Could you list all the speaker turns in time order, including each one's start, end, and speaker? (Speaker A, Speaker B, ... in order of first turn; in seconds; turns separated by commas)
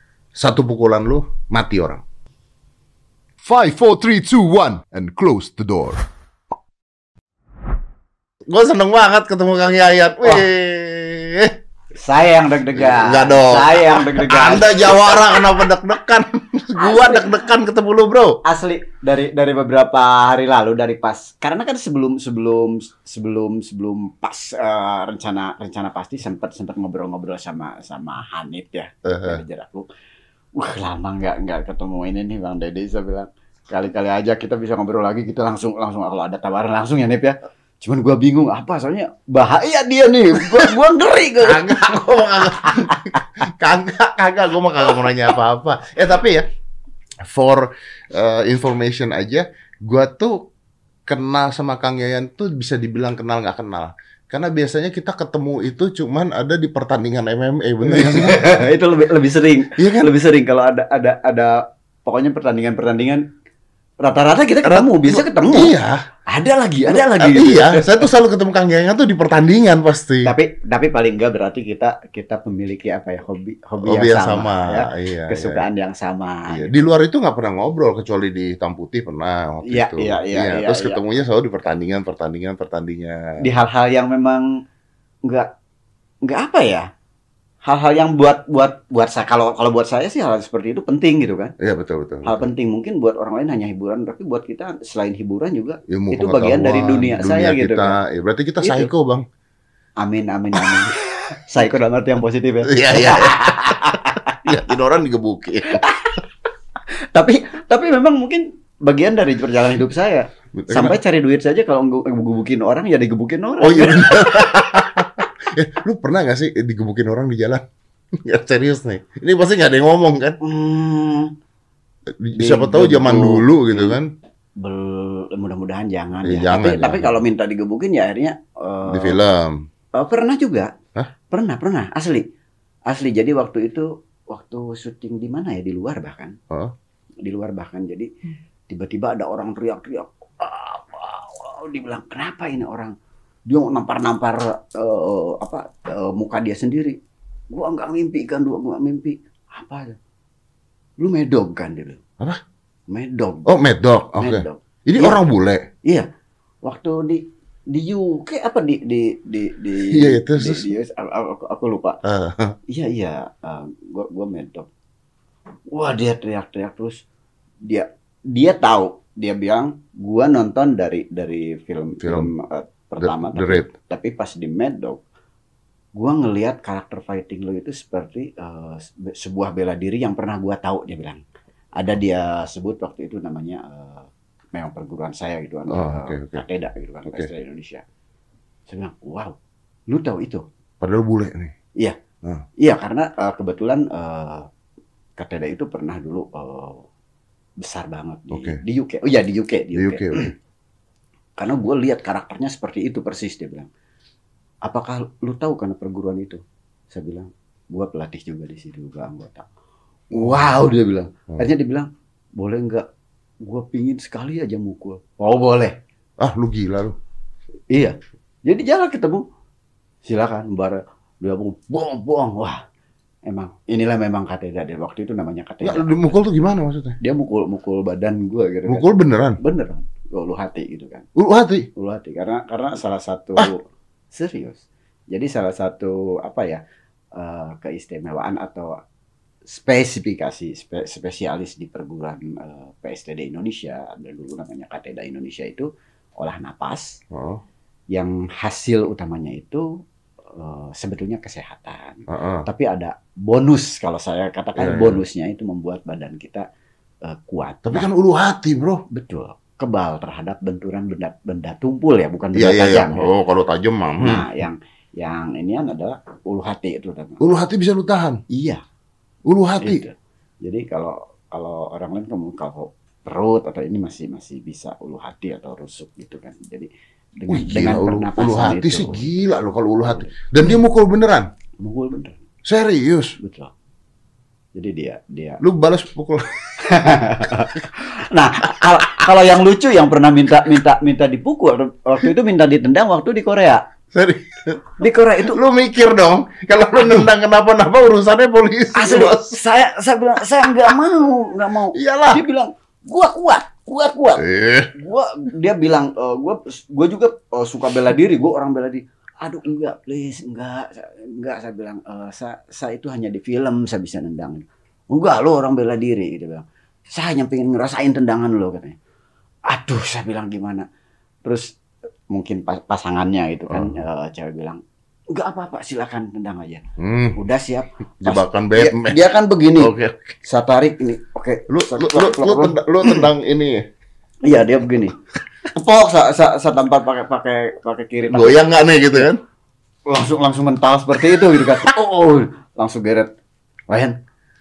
Speaker A: 0.3-2.0, Speaker B: 3.4-6.0, Speaker A: 8.5-11.5, Speaker C: 12.0-15.3, Speaker A: 12.7-18.4, Speaker C: 16.8-17.3, Speaker C: 18.4-29.8, Speaker A: 29.1-29.4, Speaker C: 30.6-42.0, Speaker A: 40.5-40.7, Speaker A: 41.4-46.4, Speaker C: 42.5-43.0, Speaker A: 47.2-50.5, Speaker A: 51.1-58.6, Speaker C: 57.8-63.2, Speaker A: 59.8-60.1, Speaker C: 64.0-65.7, Speaker A: 64.6-66.0, Speaker C: 66.3-68.1, Speaker A: 66.9-70.3, Speaker C: 70.2-76.7, Speaker A: 73.8-75.7, Speaker A: 76.5-83.4, Speaker C: 79.7-81.0, Speaker C: 83.4-84.6, Speaker C: 85.2-85.5, Speaker C: 86.2-86.9, Speaker C: 87.6-91.5, Speaker A: 91.6-92.5, Speaker C: 92.2-98.0, Speaker A: 95.9-99.2, Speaker C: 98.6-98.9, Speaker C: 100.0-104.5, Speaker A: 100.6-101.4, Speaker A: 102.7-105.8, Speaker C: 105.7-106.2, Speaker C: 107.1-114.7, Speaker A: 110.6-110.9, Speaker A: 113.6-117.6, Speaker A: 118.2-120.4, Speaker C: 120.4-121.3, Speaker A: 122.1-124.1, Speaker C: 122.3-124.0, Speaker C: 124.6-129.2, Speaker A: 126.2-127.2, Speaker A: 128.9-129.6, Speaker C: 130.0-130.7, Speaker C: 131.3-132.3, Speaker C: 132.9-136.3, Speaker C: 137.2-138.1, Speaker C: 138.7-142.9, Speaker C: 143.5-147.0, Speaker C: 147.5-150.0, Speaker C: 151.0-152.0, Speaker C: 152.9-153.6, Speaker A: 153.4-155.7, Speaker C: 154.2-155.2, Speaker C: 156.6-162.0, Speaker A: 159.9-160.7, Speaker A: 162.0-162.6, Speaker C: 162.7-164.7, Speaker C: 165.7-167.0, Speaker C: 167.7-175.0, Speaker A: 172.0-172.3, Speaker A: 173.0-173.7, Speaker C: 175.9-181.2, Speaker C: 181.8-187.8, Speaker A: 185.7-186.4, Speaker C: 188.7-189.4, Speaker C: 189.9-190.4, Speaker A: 190.8-191.5, Speaker C: 192.6-194.5, Speaker C: 195.2-196.8, Speaker C: 197.6-200.3, Speaker A: 198.3-198.6, Speaker A: 199.7-200.3, Speaker C: 201.4-203.7, Speaker C: 204.6-209.5, Speaker C: 210.1-212.9, Speaker A: 210.1-210.5, Speaker C: 213.4-215.8, Speaker A: 216.2-216.9, Speaker C: 217.7-219.2, Speaker C: 220.0-222.6, Speaker C: 223.2-226.1, Speaker A: 225.6-227.0, Speaker C: 227.0-231.1, Speaker A: 228.7-229.4, Speaker A: 231.1-231.7, Speaker C: 231.8-236.6, Speaker C: 237.1-238.7, Speaker C: 239.5-245.7, Speaker C: 246.2-247.0, Speaker A: 247.1-247.4, Speaker C: 247.9-249.7, Speaker C: 250.3-256.4, Speaker A: 252.1-252.4, Speaker A: 254.6-255.0, Speaker C: 257.0-257.9, Speaker A: 257.6-258.8, Speaker C: 258.9-263.1, Speaker A: 262.3-264.3, Speaker C: 264.0-267.2, Speaker A: 267.2-268.2, Speaker C: 268.3-268.6, Speaker A: 269.2-269.8, Speaker C: 269.6-279.1, Speaker A: 277.3-281.3, Speaker C: 279.8-280.2, Speaker C: 281.6-282.2, Speaker A: 282.4-283.2, Speaker C: 283.2-283.5, Speaker C: 284.5-285.4, Speaker A: 285.4-287.6, Speaker C: 286.6-293.6, Speaker A: 293.9-299.4, Speaker C: 294.8-295.4, Speaker C: 298.7-318.8, Speaker A: 301.7-302.2, Speaker A: 304.2-304.7, Speaker C: 319.5-320.6, Speaker C: 321.2-321.5, Speaker C: 322.1-326.6, Speaker A: 323.5-323.8, Speaker A: 326.8-327.2, Speaker C: 327.1-329.7, Speaker A: 328.0-329.0, Speaker A: 329.6-330.1, Speaker C: 330.2-333.0, Speaker A: 331.5-333.6, Speaker C: 334.2-334.9, Speaker C: 335.5-339.1, Speaker A: 338.1-339.2, Speaker C: 339.9-343.1, Speaker C: 343.7-344.0